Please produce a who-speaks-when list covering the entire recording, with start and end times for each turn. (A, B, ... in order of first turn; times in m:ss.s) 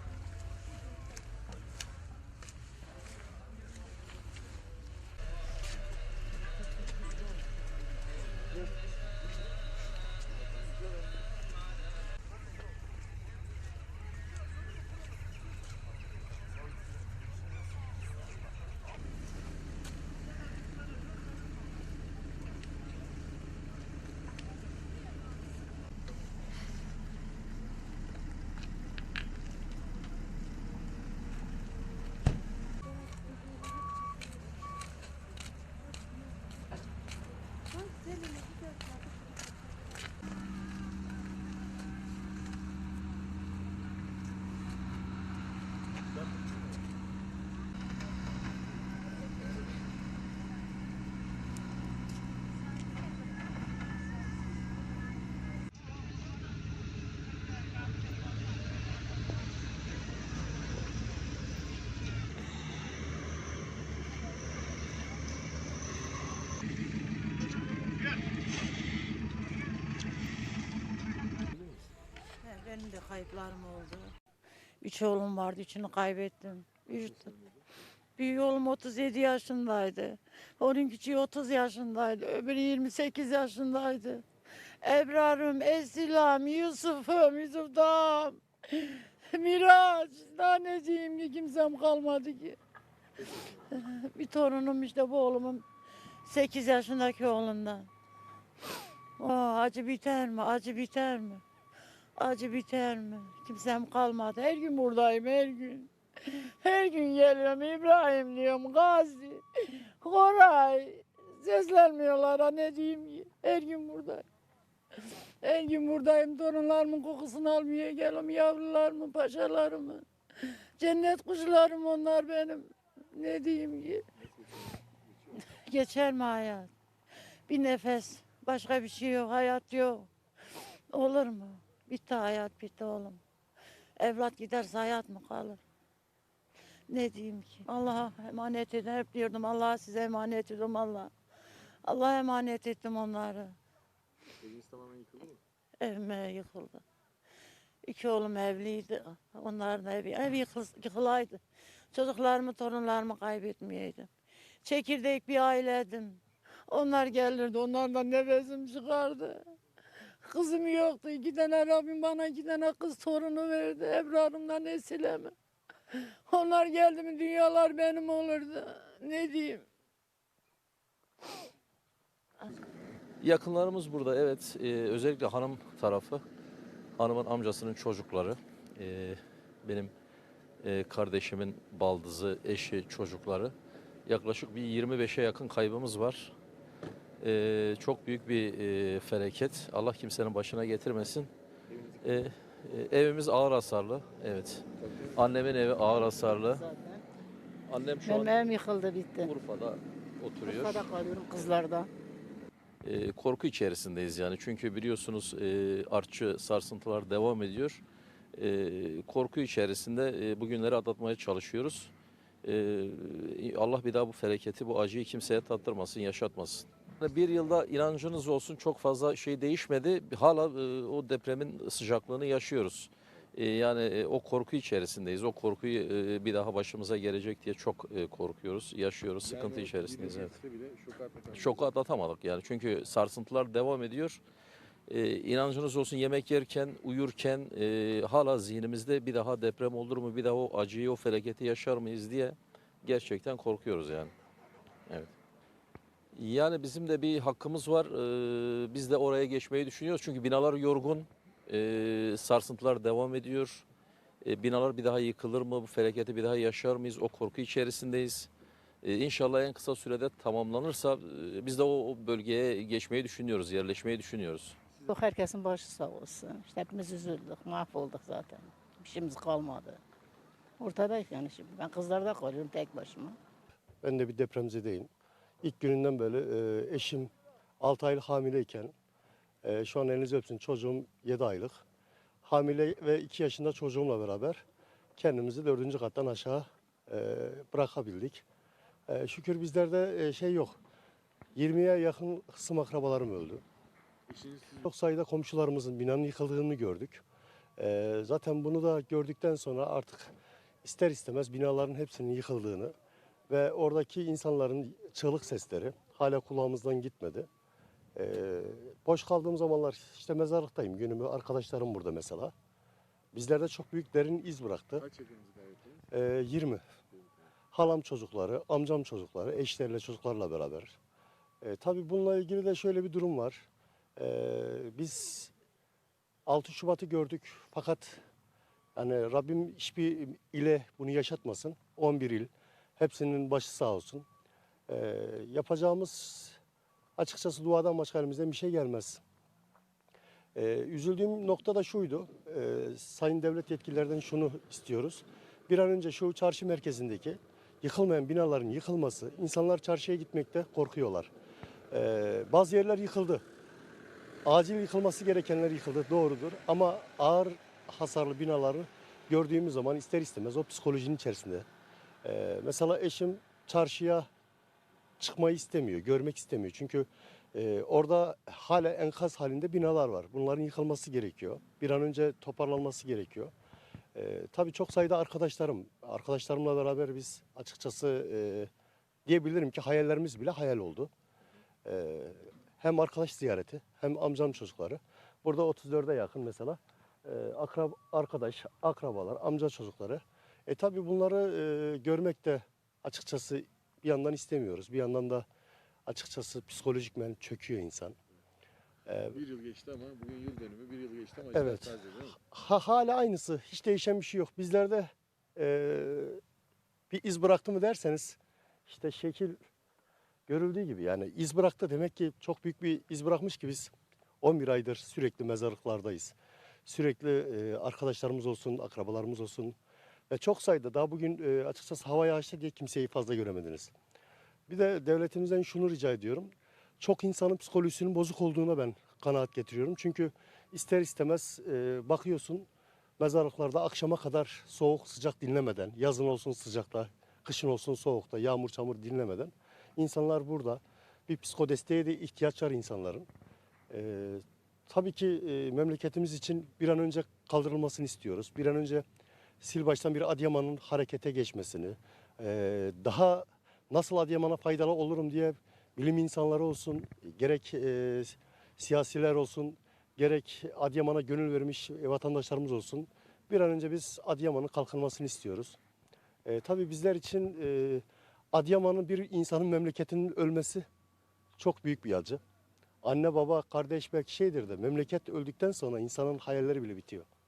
1:12.4-1:14.1 A
1:14.8-1:17.3 A
1:18.2-1:24.2 A
1:24.8-1:32.6 A
1:33.7-1:35.6 A
1:36.2-1:37.9 A
1:39.2-1:41.4 A
1:42.2-1:54.2 A
1:55.4-2:00.0 A
2:00.8-2:04.0 A
2:05.5-2:06.7 A
2:07.5-2:10.1 A
2:10.9-2:13.2 A
2:14.0-2:15.6 A
2:16.9-2:21.1 A
2:21.8-2:23.6 A
2:24.4-2:25.4 B
2:25.8-2:26.8 A
2:27.8-2:34.1 A
2:34.6-2:39.4 A
2:40.2-2:45.3 A
2:46.3-2:49.6 A
2:53.2-2:56.2 C
2:57.0-2:59.9 C
3:00.6-3:03.5 C
3:04.0-3:06.3 C
3:07.2-3:11.3 C
3:11.7-3:12.2 B
3:12.0-3:16.6 C
3:14.8-3:15.2 B
3:15.8-3:17.0 D
3:17.7-3:18.6 C
3:18.0-3:19.3 D
3:19.1-3:20.9 C
3:20.4-3:21.9 D
3:22.8-3:27.8 C
3:28.3-3:31.9 C
3:32.4-3:50.3 C
3:49.2-3:51.7 B
3:51.3-3:54.2 C
3:54.9-4:04.1 C
4:04.9-4:05.1 C
4:06.1-4:13.6 C
4:14.2-4:18.3 C
4:18.8-4:24.6 C
4:24.9-4:29.8 D
4:30.6-4:33.2 D
4:33.8-4:34.9 E
4:35.4-4:38.7 E
4:39.4-4:41.6 E
4:42.2-4:44.4 E
4:45.0-4:48.2 E
4:48.9-4:50.6 E
4:51.3-4:53.4 E
4:54.1-4:54.6 B
4:54.6-4:57.0 E
4:57.6-5:00.1 E
5:00.6-5:02.7 E
5:03.3-5:07.3 E
5:08.0-5:12.3 E
5:13.1-5:14.8 E
5:14.9-5:15.8 B
5:15.9-5:16.6 E
5:16.9-5:17.2 B
5:17.5-5:20.8 E
5:21.4-5:25.3 E
5:26.3-5:28.0 E
5:28.8-5:34.0 E
5:34.7-5:36.4 E
5:37.0-5:39.0 E
5:40.3-5:51.1 E
5:51.7-5:53.2 E
5:54.2-6:01.4 E
6:02.0-6:04.1 E
6:05.0-6:13.3 E
6:13.9-6:18.5 E
6:19.0-6:20.9 E
6:21.6-6:35.2 E
6:35.8-6:38.0 E
6:38.9-6:39.2 E
6:39.2-6:42.2 B
6:41.3-6:46.2 E
6:46.9-6:49.4 E
6:50.3-6:56.1 E
6:56.6-6:59.5 E
7:00.1-7:03.7 E
7:04.5-7:12.5 E
7:13.0-7:23.1 E
7:23.7-7:28.8 E
7:29.4-7:45.6 E
7:46.2-7:50.6 E
7:51.4-7:52.2 E
7:52.8-7:57.1 E